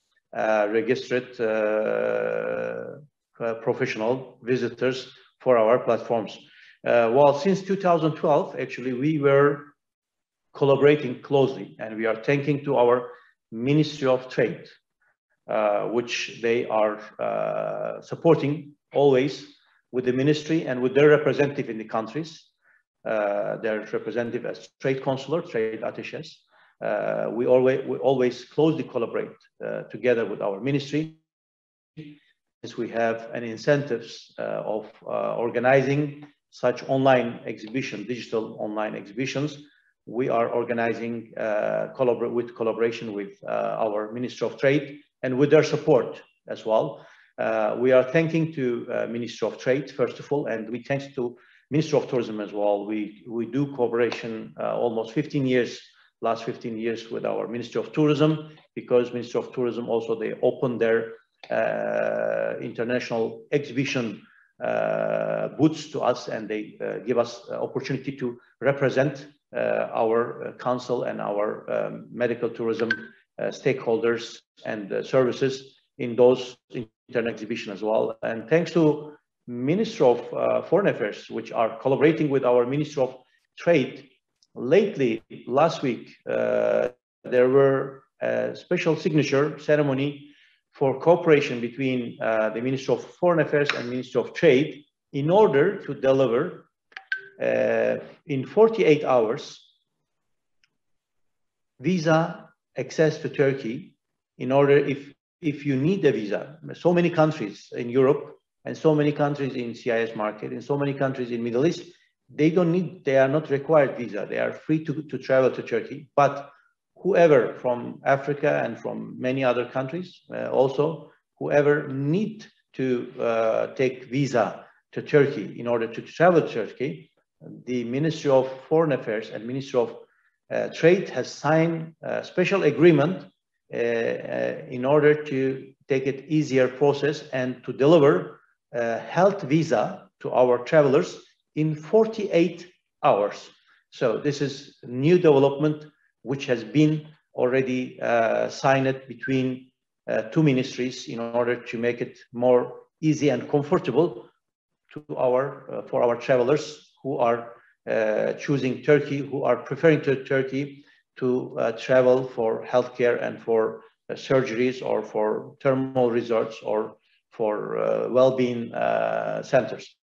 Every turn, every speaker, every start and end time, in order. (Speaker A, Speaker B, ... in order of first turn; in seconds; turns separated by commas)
Speaker A: 0.3-9.7, Speaker A: 10.5-14.7, Speaker A: 15.5-22.5, Speaker A: 23.0-31.2, Speaker A: 32.0-96.7, Speaker A: 97.4-99.7, Speaker A: 101.8-154.3, Speaker A: 154.9-169.9